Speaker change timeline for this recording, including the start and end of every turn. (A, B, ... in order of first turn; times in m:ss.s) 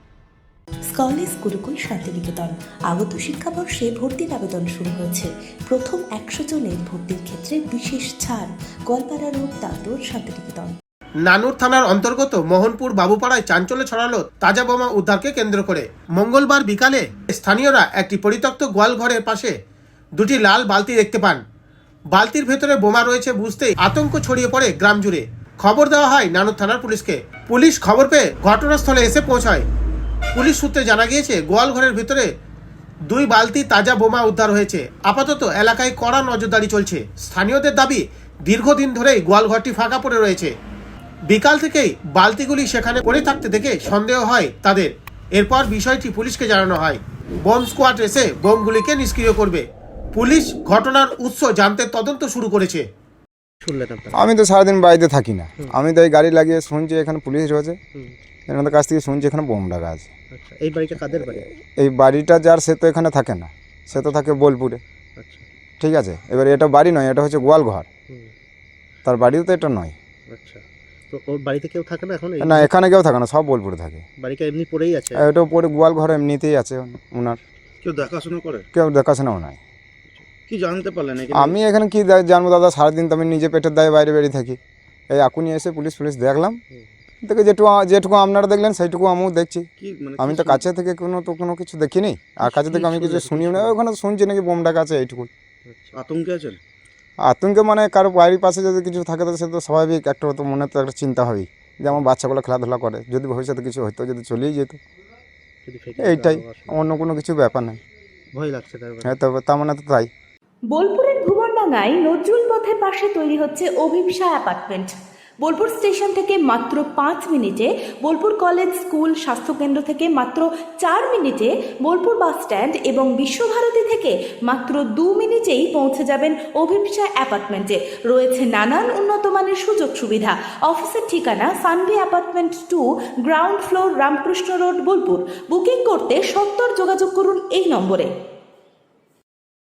0:00.9-0:10.8 A
0:11.3-0:19.5 B
0:20.2-0:21.4 B
0:22.1-0:29.7 B
0:30.4-0:32.3 B
0:33.1-0:40.5 B
0:41.3-0:49.6 B
0:50.2-0:52.8 B
0:53.6-0:54.3 C
0:54.1-0:57.8 D
0:58.5-1:00.1 D
1:00.3-1:01.5 C
1:01.6-1:04.8 D
1:05.2-1:05.5 C
1:05.8-1:07.9 D
1:09.0-1:10.0 D
1:10.3-1:12.7 C
1:12.4-1:14.0 D
1:14.2-1:15.3 C
1:15.2-1:17.4 D
1:17.8-1:18.7 E
1:18.7-1:19.6 D
1:20.5-1:21.6 E
1:21.3-1:24.6 D
1:25.1-1:26.6 D
1:27.2-1:29.7 D
1:29.8-1:30.6 E
1:30.2-1:35.3 D
1:32.4-1:33.8 C
1:35.7-1:36.0 C
1:35.9-1:36.6 E
1:37.3-1:44.8 D
1:45.6-1:46.8 C
1:46.0-1:47.8 D
1:48.3-1:49.2 C
1:49.0-1:50.1 D
1:50.7-2:18.1 A